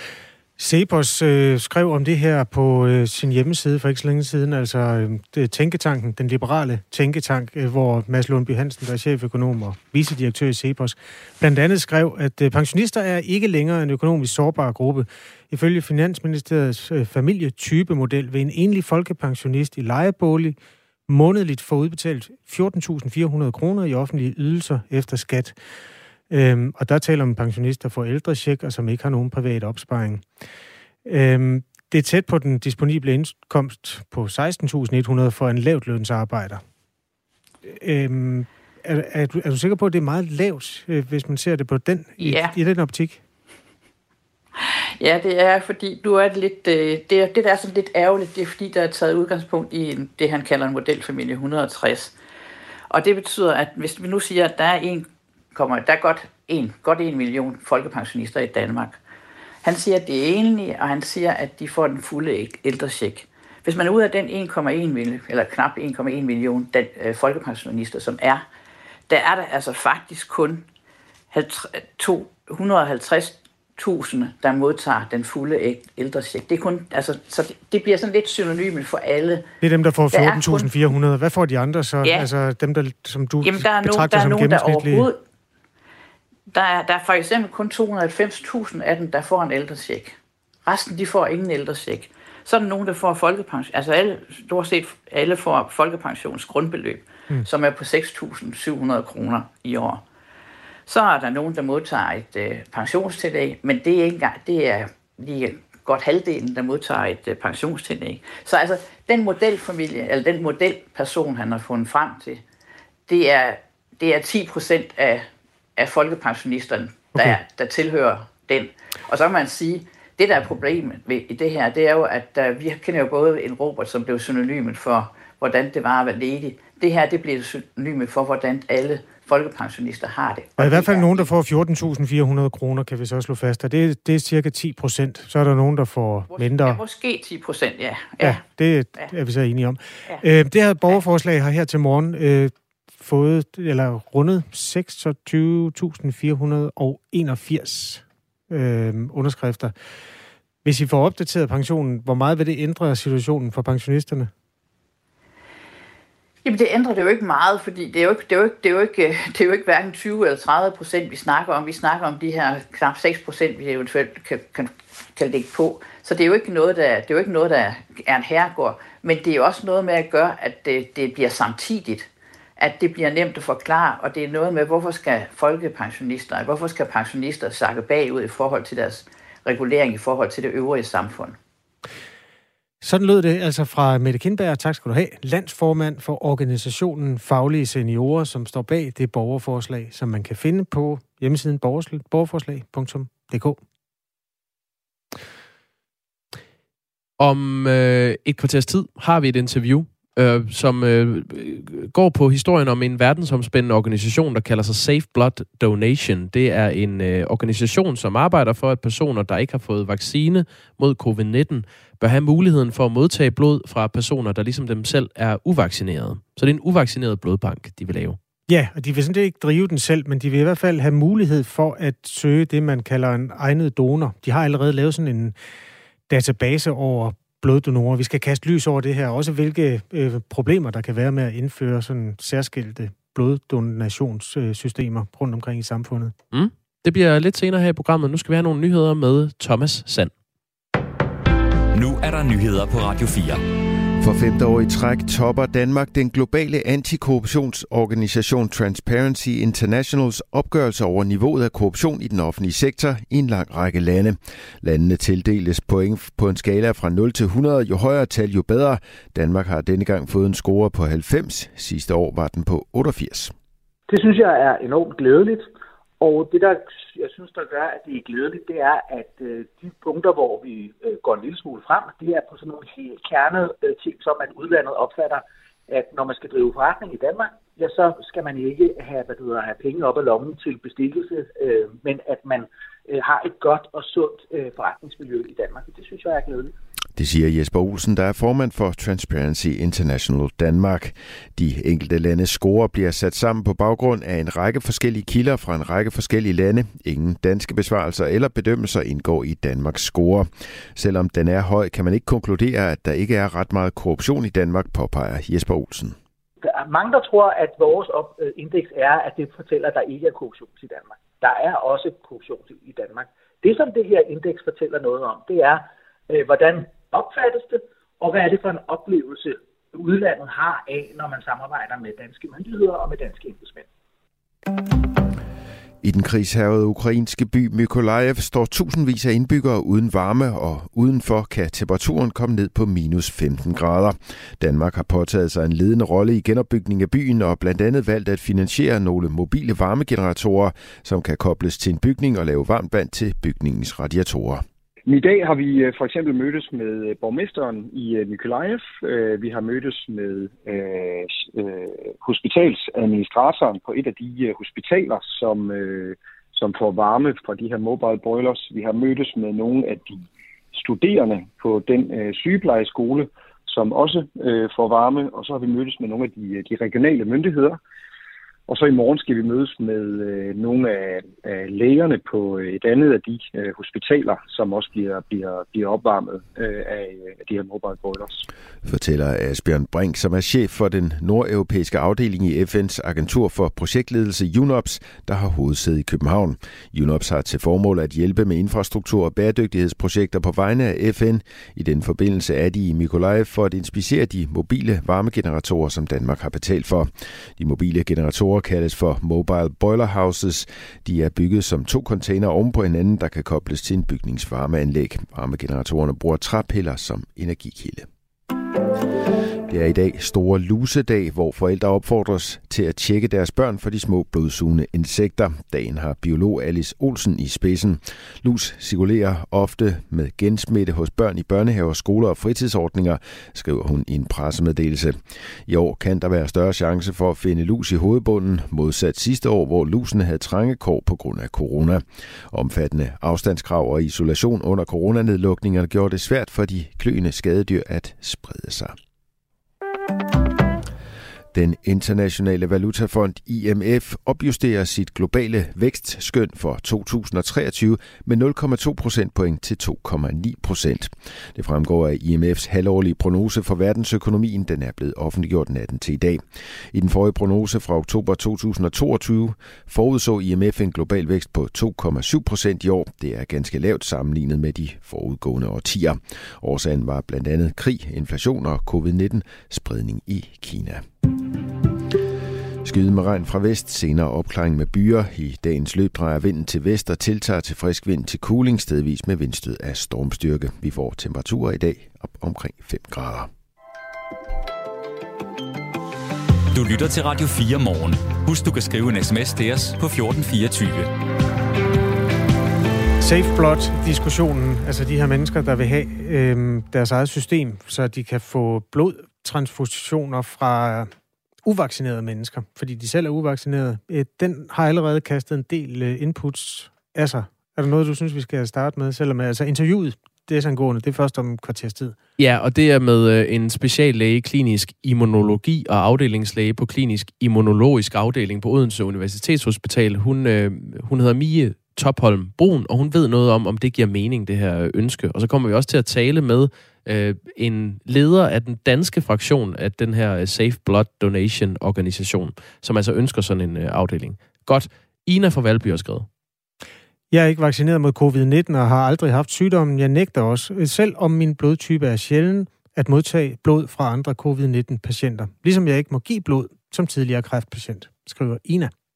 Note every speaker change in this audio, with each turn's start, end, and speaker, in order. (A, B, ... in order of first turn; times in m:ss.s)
0:00.6-0:20.6 A
0:21.1-0:25.6 A
0:26.3-0:30.2 A
0:31.0-0:36.6 A
0:37.6-0:43.2 A
0:42.2-0:42.5 B
0:44.6-0:52.1 B
0:52.9-0:59.0 B
0:59.6-1:08.4 B
1:09.1-1:10.6 B
1:11.3-1:19.4 B
1:19.6-1:25.1 A
1:20.1-1:20.9 B
1:23.4-1:25.2 B
1:26.5-1:40.0 B
1:40.9-1:52.4 B
1:53.1-2:11.3 B
2:10.6-2:16.8 A
2:16.3-2:18.4 B
2:18.2-2:29.7 A
2:30.6-2:34.3 A
2:36.4-3:01.4 B
3:02.8-3:13.6 A
3:17.2-3:38.2 C
3:38.5-3:45.3 A
3:46.1-3:56.1 A
3:56.3-4:00.1 C
4:01.7-4:03.4 D
4:04.0-4:23.3 E
4:23.9-4:46.5 F
4:47.0-5:06.0 E
5:06.4-5:23.6 F
5:25.8-5:44.4 E
5:44.9-6:07.6 G
6:08.5-6:18.2 G
6:18.6-6:47.8 E
6:49.5-7:18.7 E
7:21.3-7:36.2 E
7:36.7-7:50.8 E
7:52.6-8:03.3 E
8:06.5-8:10.9 D
8:13.0-8:20.9 A
8:21.4-8:32.0 A
8:32.2-8:56.1 C
8:57.1-9:08.7 A